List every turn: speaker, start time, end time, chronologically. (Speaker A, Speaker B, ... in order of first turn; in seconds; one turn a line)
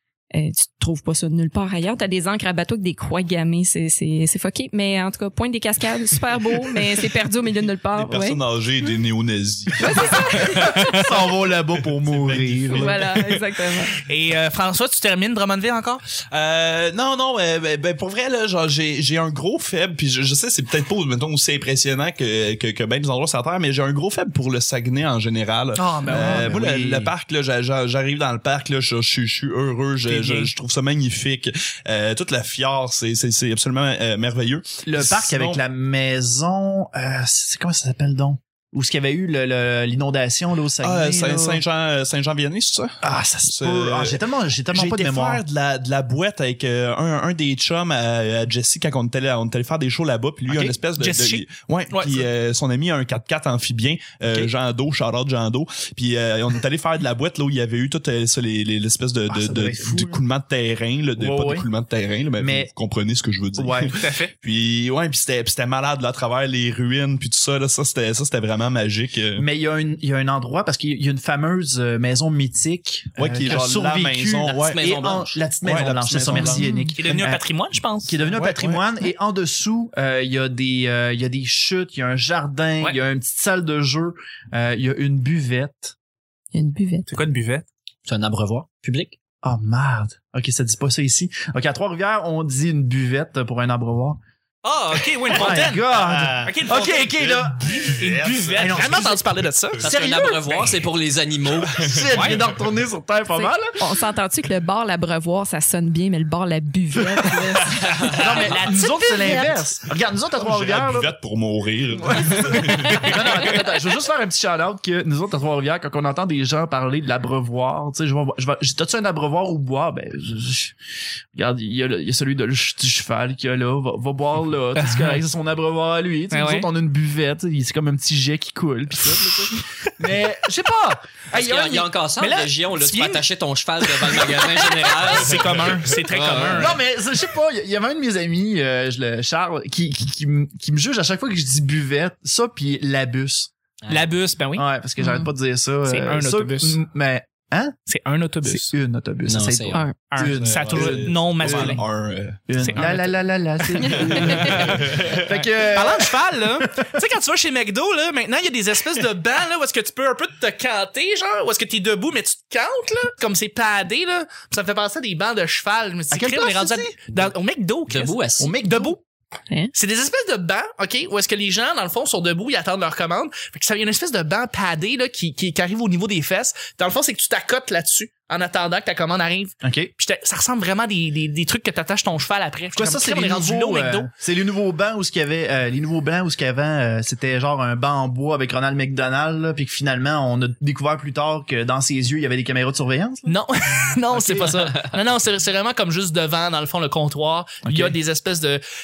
Speaker A: 0.3-8.4
Speaker B: 7.9-11.0
Speaker A: 9.8-11.0
Speaker C: 10.4-13.1
Speaker B: 12.0-13.4
Speaker A: 12.7-13.9
Speaker D: 14.0-16.0
Speaker B: 16.2-35.6
Speaker D: 25.8-26.5
Speaker C: 26.1-27.1
Speaker D: 30.1-30.5
Speaker C: 34.8-41.6
Speaker B: 40.8-43.0
Speaker C: 43.0-45.4
Speaker B: 43.5-69.5
Speaker D: 50.6-52.3
Speaker C: 59.3-60.2
Speaker C: 61.2-61.7
Speaker C: 62.4-62.7
Speaker C: 63.5-64.0
Speaker D: 63.9-64.3
Speaker C: 69.3-77.4
Speaker B: 73.2-74.8
Speaker E: 74.4-75.5
Speaker B: 75.6-76.7
Speaker A: 76.4-76.9
Speaker D: 77.0-78.2
Speaker C: 78.0-85.9
Speaker B: 78.3-78.8
Speaker A: 86.5-87.1
Speaker D: 87.1-87.6
Speaker E: 88.0-89.1
Speaker C: 89.4-94.2
Speaker D: 94.6-95.8
Speaker C: 95.3-98.0
Speaker B: 95.4-99.0
Speaker D: 96.4-97.1
Speaker D: 97.7-100.0
Speaker C: 98.5-99.2
Speaker E: 99.8-101.8
Speaker C: 99.9-100.3
Speaker B: 101.7-102.4
Speaker C: 101.8-103.8
Speaker A: 103.3-108.2
Speaker C: 108.0-111.1
Speaker D: 108.1-109.6
Speaker A: 109.2-109.5
Speaker B: 110.3-113.6
Speaker C: 112.1-120.7
Speaker C: 121.3-131.0
Speaker D: 124.8-125.2
Speaker D: 126.3-126.7
Speaker E: 131.3-136.7
Speaker D: 131.3-133.2
Speaker D: 133.8-136.8
Speaker C: 136.5-143.5
Speaker E: 143.8-144.1
Speaker D: 143.9-144.6
Speaker C: 144.6-147.7
Speaker A: 145.0-145.3
Speaker D: 145.8-146.8
Speaker D: 147.9-148.7
Speaker C: 148.4-151.8
Speaker E: 149.2-149.8
Speaker D: 150.1-151.8
Speaker B: 150.3-152.8
Speaker C: 152.5-156.9
Speaker D: 152.6-153.1
Speaker D: 153.8-169.0
Speaker B: 154.2-155.3
Speaker C: 166.1-166.9
Speaker E: 167.9-168.5
Speaker C: 168.4-169.0
Speaker D: 169.7-184.1
Speaker C: 179.6-179.9
Speaker C: 182.7-193.3
Speaker D: 193.2-198.6
Speaker C: 194.1-194.5
Speaker C: 197.6-198.0